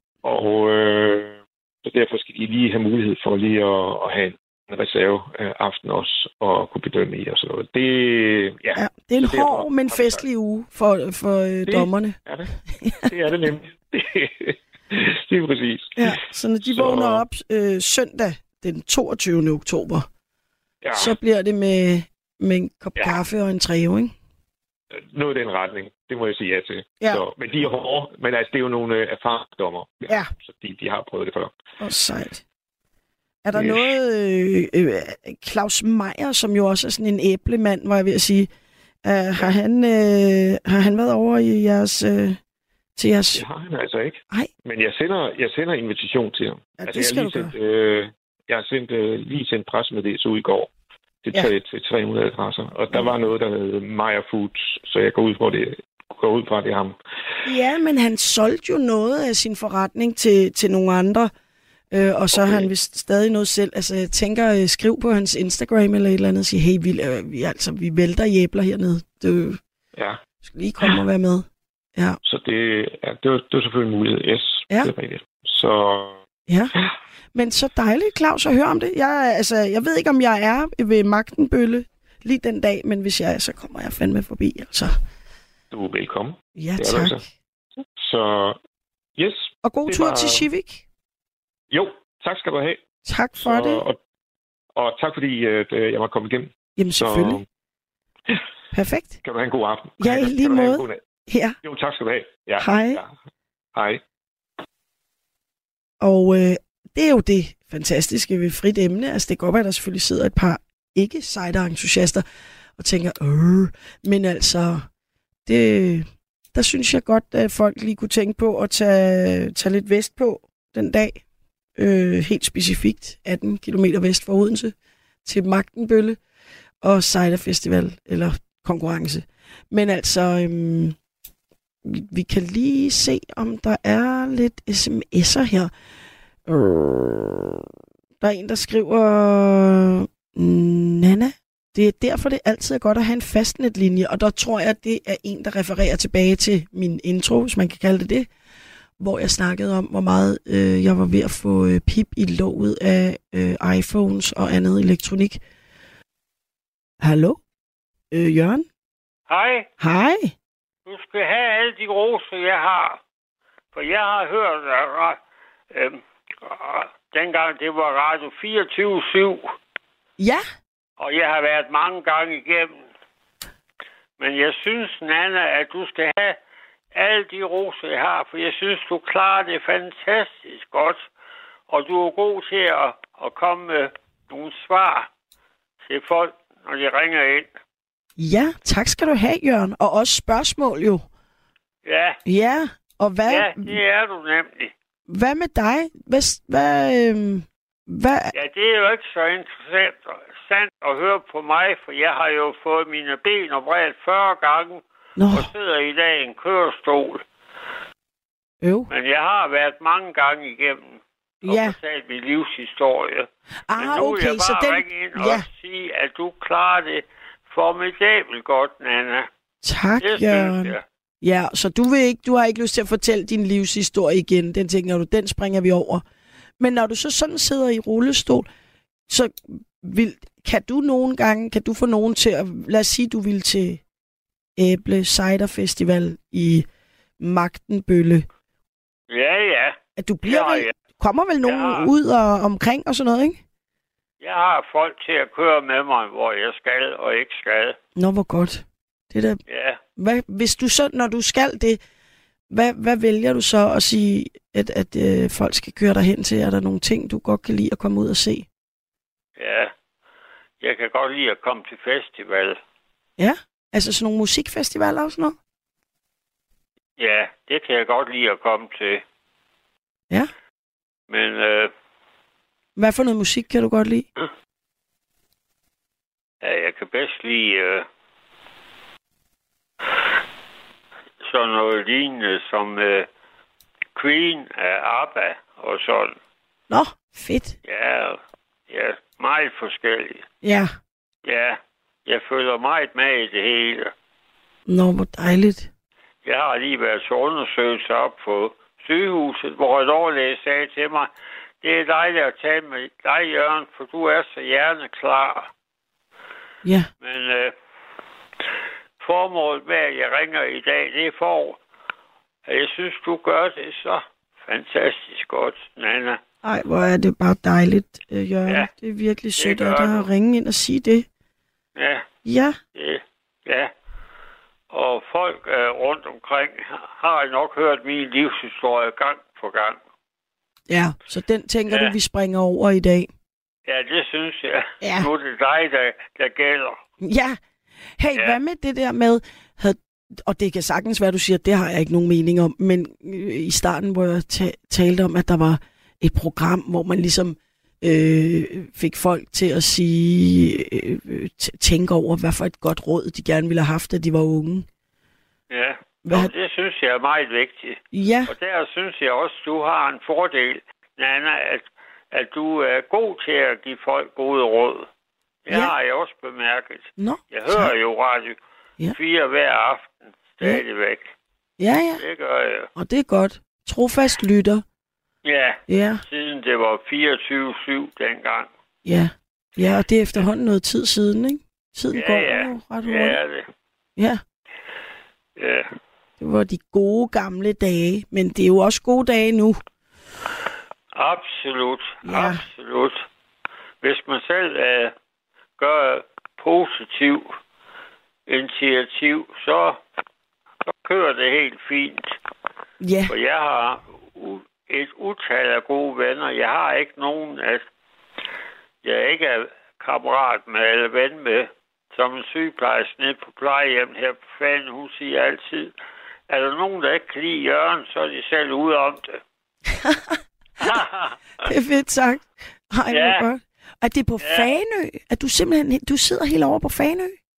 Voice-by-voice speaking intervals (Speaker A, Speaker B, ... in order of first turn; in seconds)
Speaker A: 0.2-10.2, 11.7-17.2, 20.8-21.1, 24.9-31.5, 33.5-34.0, 43.3-50.7, 51.2-57.0, 62.3-62.7, 70.0-70.2, 72.2-76.2, 85.7-87.2, 88.0-88.6, 89.2-90.5, 91.7-92.8, 93.4-94.0, 94.8-97.5, 99.2-101.0, 101.6-103.1, 103.8-104.0
Speaker B: 8.8-12.2, 12.8-13.1, 16.0-20.1, 20.9-24.1, 31.8-32.4, 33.4-38.5, 39.0-42.4, 43.0-43.5, 46.8-47.5, 52.9-53.2, 57.5-61.3, 61.9-69.6, 70.4-72.2, 76.5-76.7, 77.3-85.0, 86.6-87.2, 89.6-90.8, 93.0-93.8, 96.8-97.4, 98.7-99.2, 100.0-101.6, 102.6-103.0, 106.0-112.2, 112.8-114.9, 115.5-121.2, 121.8-124.7, 125.2-126.2, 126.8-131.0, 131.8-135.7, 136.5-137.7, 138.2-148.3, 149.0-155.4, 157.0-157.4, 158.1-158.7, 159.8-160.3, 188.2-191.1, 192.3-193.8, 195.1-198.3, 205.2-205.5, 208.6-208.9, 211.4-211.8, 213.7-215.5, 219.7-226.0, 226.6-228.5, 229.1-233.8, 234.6-236.7, 237.2-238.3, 240.0-243.4, 248.0-249.4, 250.0-251.8, 252.5-258.5, 263.2-265.4, 272.8-274.1, 286.7-287.6, 290.4-290.7, 294.7-295.7, 306.6-306.9, 316.4-321.1, 322.2-322.6, 330.7-333.1, 334.8-335.1, 337.0-337.4, 338.0-354.7, 356.1-356.3, 357.9-358.3, 367.0-367.7, 371.6-372.0, 372.8-374.6, 375.7-376.0, 378.9-383.2, 386.2-389.6, 392.1-392.4, 402.8-403.1, 421.4-427.1
Speaker C: 159.3-159.7, 160.9-163.0, 163.7-165.2, 165.7-169.5, 171.0-172.8, 174.2-176.4, 176.9-181.1, 181.7-185.1, 185.9-187.5, 191.8-192.2, 193.3-194.7, 198.3-207.2, 208.9-219.3, 220.0-220.8, 239.1-240.7, 241.4-241.9, 244.2-247.8, 249.5-249.8, 259.4-259.7, 260.6-262.6, 267.0-269.0, 271.1-271.7, 276.4-277.9, 281.2-283.1, 284.0-286.2, 287.7-290.2, 291.2-293.9, 296.2-301.1, 301.6-305.5, 307.0-307.5, 309.0-311.6, 312.5-316.2, 319.4-320.1, 321.8-322.1, 322.8-323.7, 324.7-329.8, 331.7-331.9, 333.7-336.8, 355.5-364.9, 365.5-368.4, 368.9-371.1, 372.0-372.7, 375.2-378.5, 381.9-383.5, 385.4-385.7, 390.9-393.1, 393.8-394.9, 395.6-397.3, 398.3-399.8, 400.7-402.1, 403.1-407.6, 408.8-415.7, 416.3-419.2, 420.6-421.2, 422.9-423.2, 424.2-424.5